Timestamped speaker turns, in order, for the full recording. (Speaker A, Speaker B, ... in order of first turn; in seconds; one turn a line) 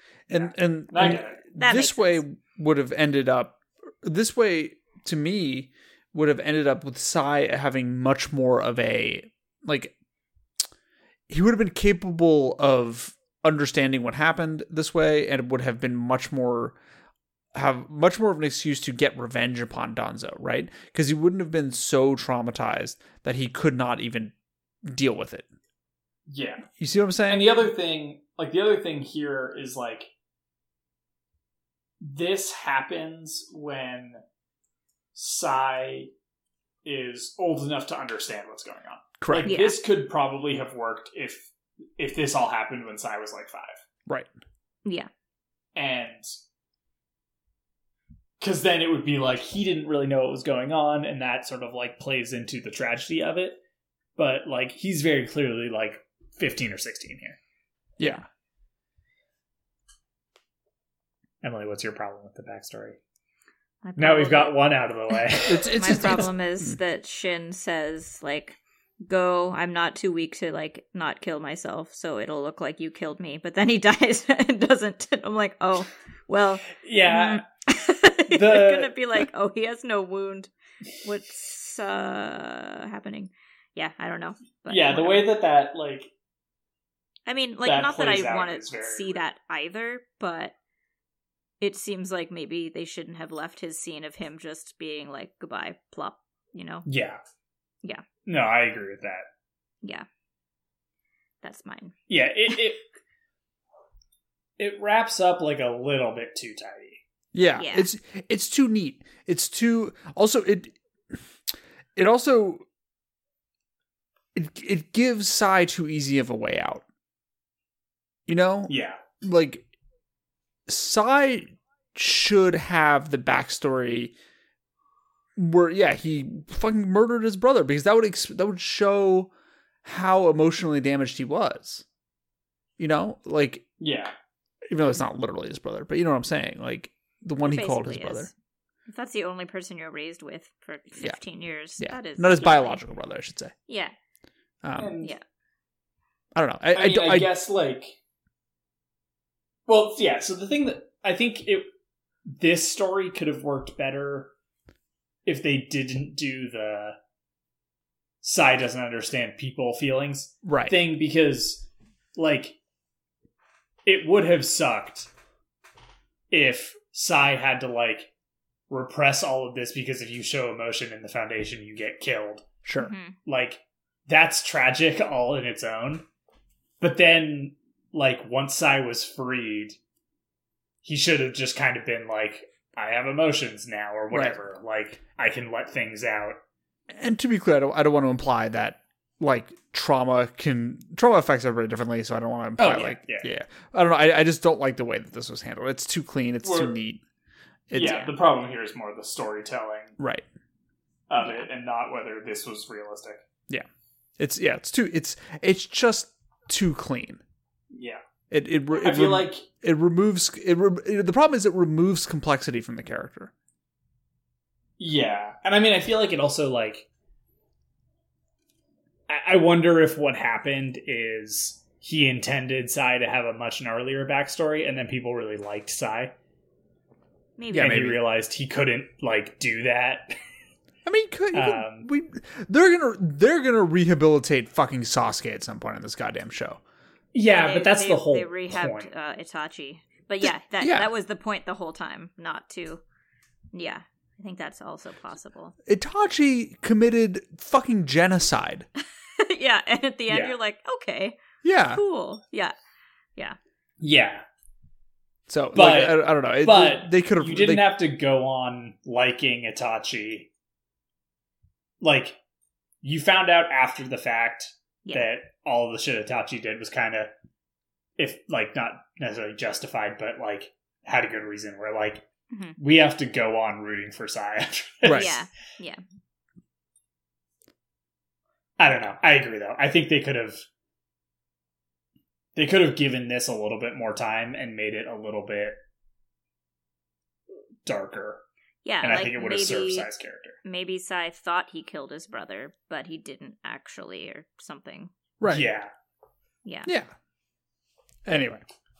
Speaker A: 0.3-9.9
Speaker B: 0.3-1.4
Speaker C: 1.6-2.2
Speaker A: 11.3-16.8
Speaker A: 17.5-24.3
Speaker A: 24.8-25.5
Speaker B: 26.3-26.6
Speaker A: 26.8-27.6
Speaker B: 27.3-30.1
Speaker B: 32.0-34.2
Speaker B: 35.1-36.1
Speaker B: 36.8-43.8
Speaker A: 39.2-39.5
Speaker C: 39.4-39.8
Speaker C: 44.8-45.1
Speaker B: 45.8-46.3
Speaker B: 48.4-53.6
Speaker B: 54.2-57.4
Speaker A: 58.0-58.2
Speaker B: 61.4-63.0
Speaker C: 63.8-80.5
Speaker B: 64.0-66.2
Speaker A: 65.4-66.8
Speaker B: 76.8-77.4
Speaker B: 78.2-79.0
Speaker C: 81.0-85.3
Speaker B: 84.7-86.1
Speaker C: 87.2-90.5
Speaker B: 87.6-89.2
Speaker C: 91.6-96.9
Speaker B: 96.8-97.2
Speaker B: 98.2-99.2
Speaker C: 101.4-102.0
Speaker B: 102.1-102.8
Speaker B: 104.6-107.0
Speaker A: 107.3-110.8
Speaker C: 107.5-107.9
Speaker A: 112.0-112.6
Speaker A: 114.3-116.8
Speaker A: 118.3-119.7
Speaker B: 118.7-119.0
Speaker A: 120.7-124.1
Speaker A: 125.4-129.3
Speaker A: 129.8-131.8
Speaker A: 132.8-133.7
Speaker B: 133.8-134.1
Speaker A: 134.7-138.3
Speaker C: 137.4-138.3
Speaker C: 138.8-142.8
Speaker A: 141.8-143.5
Speaker C: 143.7-143.9
Speaker A: 144.6-144.9
Speaker B: 144.8-145.1
Speaker A: 146.3-147.3
Speaker B: 146.7-148.0
Speaker B: 149.7-151.7
Speaker B: 152.3-154.3
Speaker B: 155.2-157.0
Speaker B: 158.2-162.6
Speaker A: 160.4-160.8
Speaker B: 163.8-165.1
Speaker B: 166.3-168.1
Speaker B: 168.7-172.5
Speaker A: 172.6-172.9
Speaker C: 172.8-173.2
Speaker B: 173.2-176.0
Speaker B: 176.8-179.8
Speaker B: 180.8-186.4
Speaker A: 184.1-184.4
Speaker A: 186.9-197.0
Speaker B: 192.6-193.3
Speaker B: 196.4-196.8
Speaker A: 197.7-198.0
Speaker B: 197.7-200.0
Speaker C: 197.8-198.1
Speaker A: 200.0-200.2
Speaker B: 201.1-203.2
Speaker C: 201.2-201.5
Speaker A: 204.2-207.2
Speaker B: 207.7-208.0
Speaker A: 208.3-213.3
Speaker B: 208.7-209.4
Speaker B: 214.8-216.9
Speaker B: 219.1-226.1
Speaker C: 227.4-227.8
Speaker A: 227.5-228.0
Speaker B: 227.5-230.2
Speaker A: 230.8-236.6
Speaker B: 231.3-231.9
Speaker B: 237.1-238.9
Speaker C: 237.3-242.8
Speaker A: 240.6-240.9
Speaker C: 243.5-245.5
Speaker A: 245.7-248.7
Speaker C: 249.1-252.5
Speaker B: 250.1-250.3
Speaker A: 251.4-251.8
Speaker B: 253.8-254.2
Speaker A: 255.3-257.7
Speaker B: 255.5-260.3
Speaker B: 261.8-262.2
Speaker B: 262.8-267.1
Speaker C: 264.9-265.1
Speaker B: 268.0-272.0
Speaker C: 272.3-272.6
Speaker B: 272.6-275.2
Speaker A: 274.8-275.1
Speaker C: 274.9-275.8
Speaker B: 278.6-280.4
Speaker B: 282.4-285.6
Speaker B: 287.6-288.2
Speaker C: 288.6-289.9
Speaker B: 288.8-290.4
Speaker C: 290.4-294.9
Speaker A: 295.2-295.5
Speaker B: 295.3-295.7
Speaker C: 296.4-296.7
Speaker A: 296.6-296.9
Speaker A: 298.1-298.4